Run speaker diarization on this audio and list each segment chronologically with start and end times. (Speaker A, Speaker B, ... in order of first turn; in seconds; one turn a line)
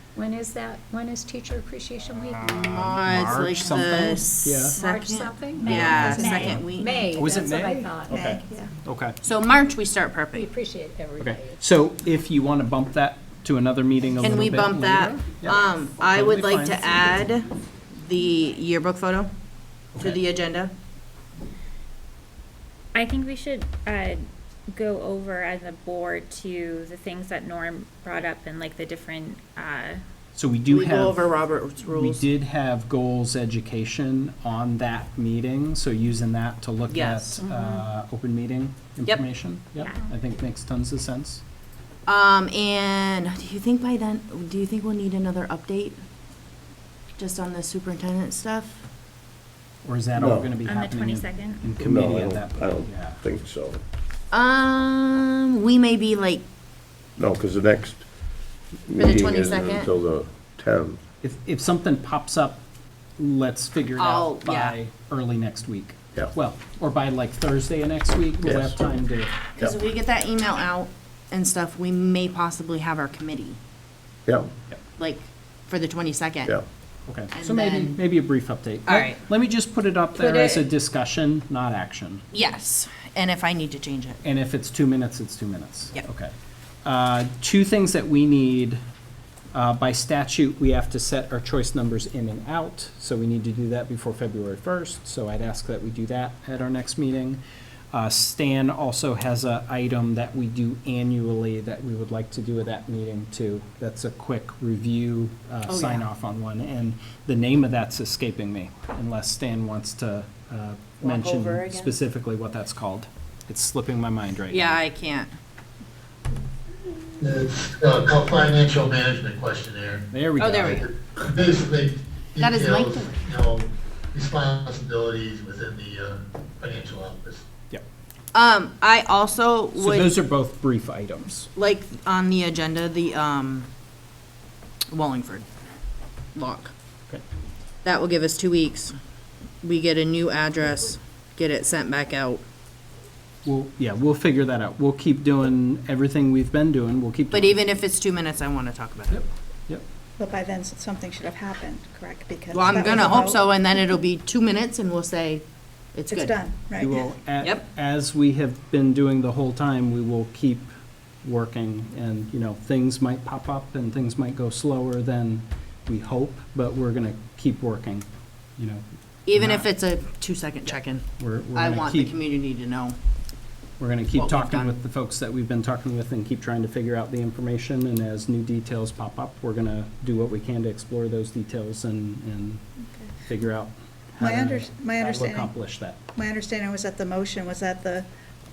Speaker A: 0.1-2.8
Speaker B: 2.5-7.0
Speaker C: 2.7-4.8
Speaker A: 4.7-8.3
Speaker C: 5.6-9.2
Speaker D: 5.7-7.0
Speaker D: 8.1-8.7
Speaker B: 9.2-10.5
Speaker A: 10.3-11.6
Speaker C: 11.2-17.2
Speaker B: 14.2-19.3
Speaker C: 19.9-20.2
Speaker B: 20.0-20.7
Speaker E: 22.9-30.0
Speaker C: 30.3-31.3
Speaker B: 30.7-32.2
Speaker C: 31.8-41.4
Speaker B: 36.9-37.4
Speaker E: 37.5-37.8
Speaker E: 39.8-40.1
Speaker B: 42.1-46.0
Speaker B: 47.2-48.8
Speaker C: 49.8-53.2
Speaker F: 50.1-50.5
Speaker E: 50.6-51.7
Speaker F: 51.8-53.8
Speaker B: 54.3-56.4
Speaker F: 57.2-58.0
Speaker F: 58.9-61.0
Speaker B: 59.0-59.9
Speaker C: 61.2-62.6
Speaker C: 63.2-69.3
Speaker B: 64.0-64.8
Speaker F: 68.4-68.8
Speaker B: 69.6-73.6
Speaker B: 75.0-76.5
Speaker C: 77.1-82.2
Speaker B: 77.3-78.0
Speaker B: 78.9-79.2
Speaker E: 80.2-80.6
Speaker B: 82.3-84.2
Speaker C: 84.2-86.3
Speaker C: 86.8-88.8
Speaker C: 89.5-97.4
Speaker C: 97.9-114.8
Speaker B: 105.7-106.0
Speaker B: 111.0-111.9
Speaker B: 114.5-115.3
Speaker G: 117.2-120.0
Speaker C: 120.1-120.9
Speaker B: 120.4-120.9
Speaker G: 121.1-127.4
Speaker B: 122.4-123.3
Speaker B: 128.3-130.1
Speaker C: 129.8-131.5
Speaker B: 131.6-133.7
Speaker B: 134.9-135.5
Speaker B: 136.3-136.7
Speaker B: 137.8-138.9
Speaker B: 139.6-142.4
Speaker C: 143.4-147.6
Speaker B: 147.3-149.2
Speaker C: 149.1-149.8
Speaker D: 150.2-153.5
Speaker B: 152.5-156.4
Speaker D: 156.1-157.0
Speaker C: 156.8-160.7
Speaker C: 161.2-169.7
Speaker B: 169.2-172.9
Speaker C: 171.2-172.1
Speaker C: 173.8-182.6
Speaker B: 174.1-174.7
Speaker C: 183.2-186.0
Speaker D: 184.2-185.5
Speaker D: 186.2-188.1